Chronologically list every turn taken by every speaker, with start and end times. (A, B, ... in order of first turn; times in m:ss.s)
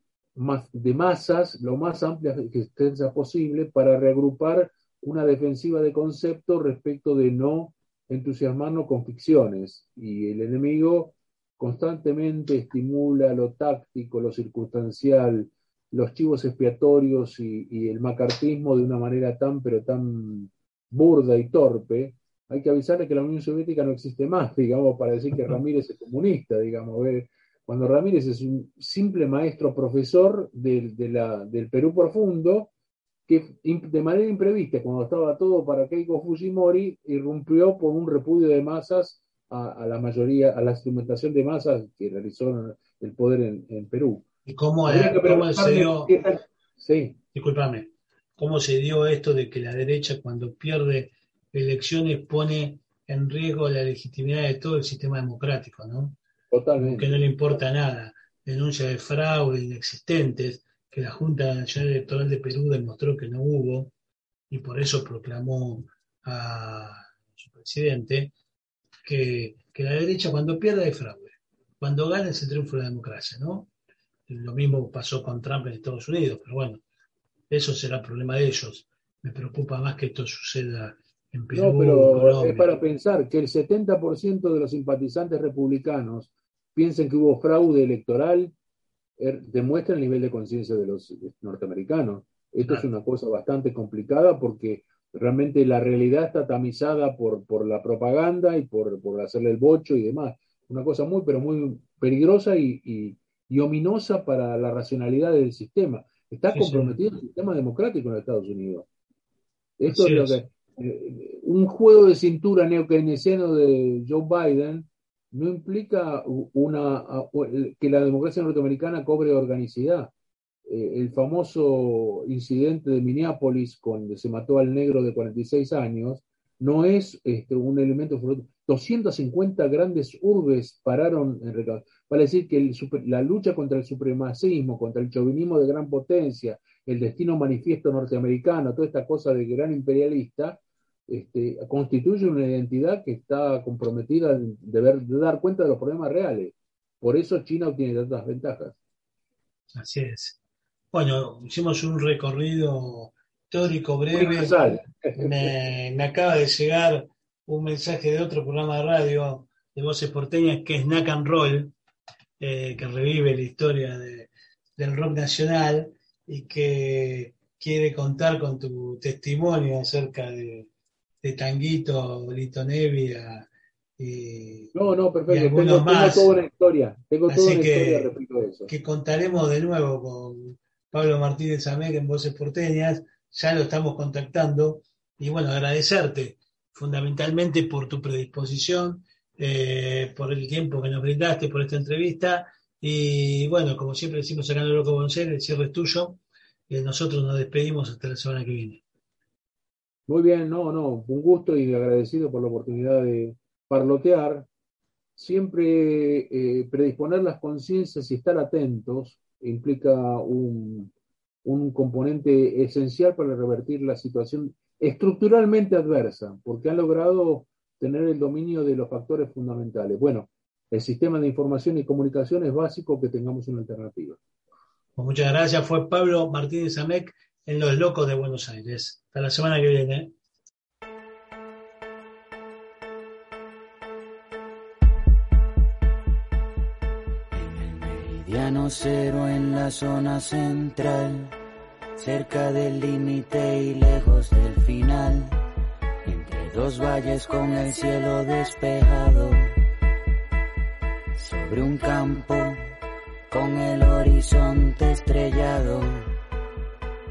0:00.3-0:32.7 A
0:33.3-0:44.2 A
0:44.4-0:46.1 B
0:44.8-0:47.2 A
0:47.3-0:56.2 B
0:56.5-0:57.3 A
0:56.8-1:03.9 B
1:04.5-1:08.3 B
1:09.0-1:13.7 B
1:14.3-1:16.8 B
1:17.5-1:22.7 B
1:21.5-1:28.5 A
1:29.2-1:48.8 A
1:46.5-1:47.0 B
1:49.8-2:00.1 A
1:49.9-1:50.4 B
2:00.7-2:28.8 A
2:29.7-2:30.4 B
2:30.9-2:41.7 B
2:34.1-2:35.5 A
2:42.4-2:50.7 B
2:51.2-2:53.5 B
2:54.0-2:54.7 B
2:54.7-2:58.7 A
2:55.3-2:56.3 B
2:57.3-2:58.1 B
2:58.7-3:16.2 B
3:16.7-3:18.8 B
3:20.1-3:24.5 A
3:25.2-3:30.9 A
3:31.4-3:44.2 A
3:45.0-3:50.1 B
3:57.3-4:01.3 C
4:02.0-4:05.4 C
4:06.0-4:09.5 C
4:11.2-4:12.6 C
4:13.3-4:16.1 C